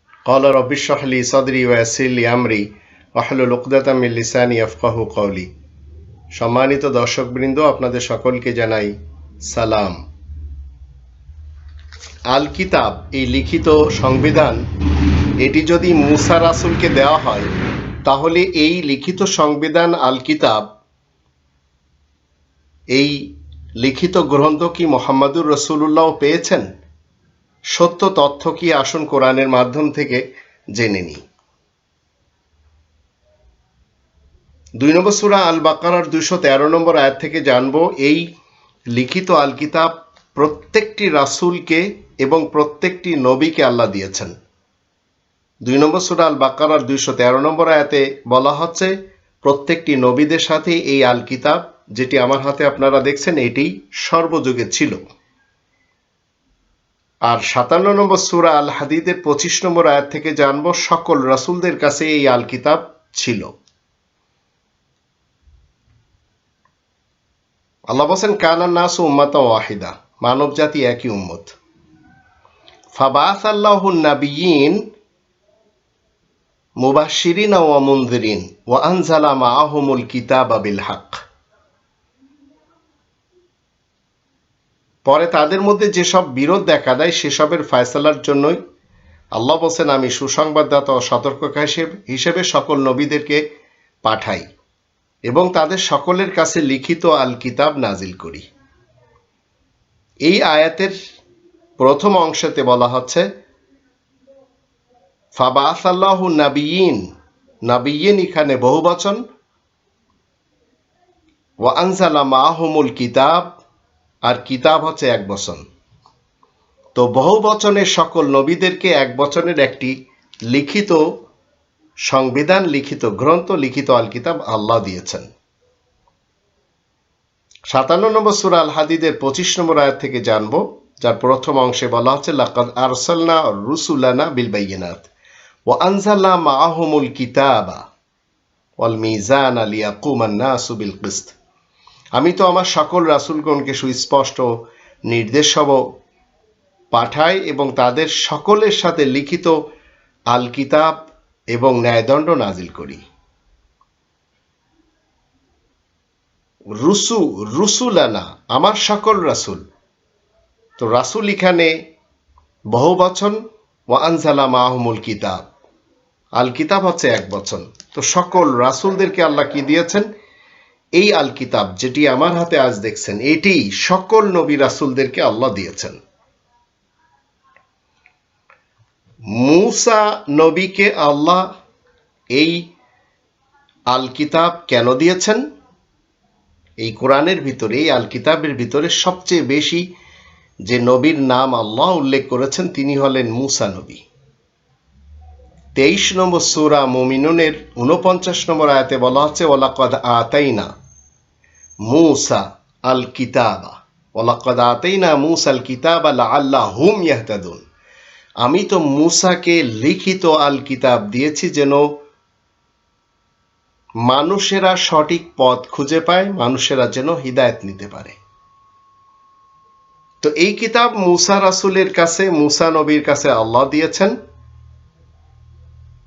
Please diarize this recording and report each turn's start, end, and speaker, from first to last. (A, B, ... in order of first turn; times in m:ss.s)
0:00.3-0:02.6 A
0:03.2-0:05.5 A
0:06.4-0:08.9 A
0:09.5-0:10.0 A
0:12.3-0:14.6 A
0:15.4-0:17.5 A
0:18.1-0:20.6 A
0:23.8-0:26.6 A
0:27.8-0:30.2 A
0:30.8-0:31.2 A
0:34.8-0:38.2 A
0:38.9-0:44.3 A
0:45.7-0:55.0 A
0:57.3-1:03.5 A
1:07.9-1:11.5 A
1:12.9-1:14.8 A
1:16.8-1:21.2 A
1:25.1-1:28.6 A
1:29.4-1:33.4 A
1:34.0-1:34.4 A
1:35.3-1:38.4 A
1:40.3-1:41.0 A
1:41.8-1:43.3 A
1:45.4-1:47.0 A
1:47.7-1:49.2 A
1:51.6-1:53.5 A
1:54.3-1:55.6 A
1:57.0-1:59.9 A
2:00.5-2:01.0 A
2:02.1-2:05.3 A
2:07.7-2:15.1 A
2:15.7-2:17.8 A
2:18.8-2:21.3 A
2:22.2-2:24.5 A
2:25.1-2:25.8 A
2:26.9-2:29.6 A
2:30.3-2:30.9 A
2:31.5-2:33.0 A
2:36.8-2:39.6 A
2:40.8-2:41.7 A
2:42.7-2:43.4 A
2:43.9-2:45.4 A
2:46.4-2:50.1 A
2:51.0-2:56.0 A
2:59.4-3:01.4 A
3:03.9-3:05.4 A
3:06.8-3:09.8 A
3:10.7-3:14.0 A
3:15.8-3:20.7 A
3:21.9-3:27.6 A
3:28.4-3:31.8 A
3:34.1-3:38.2 A
3:40.2-3:44.1 A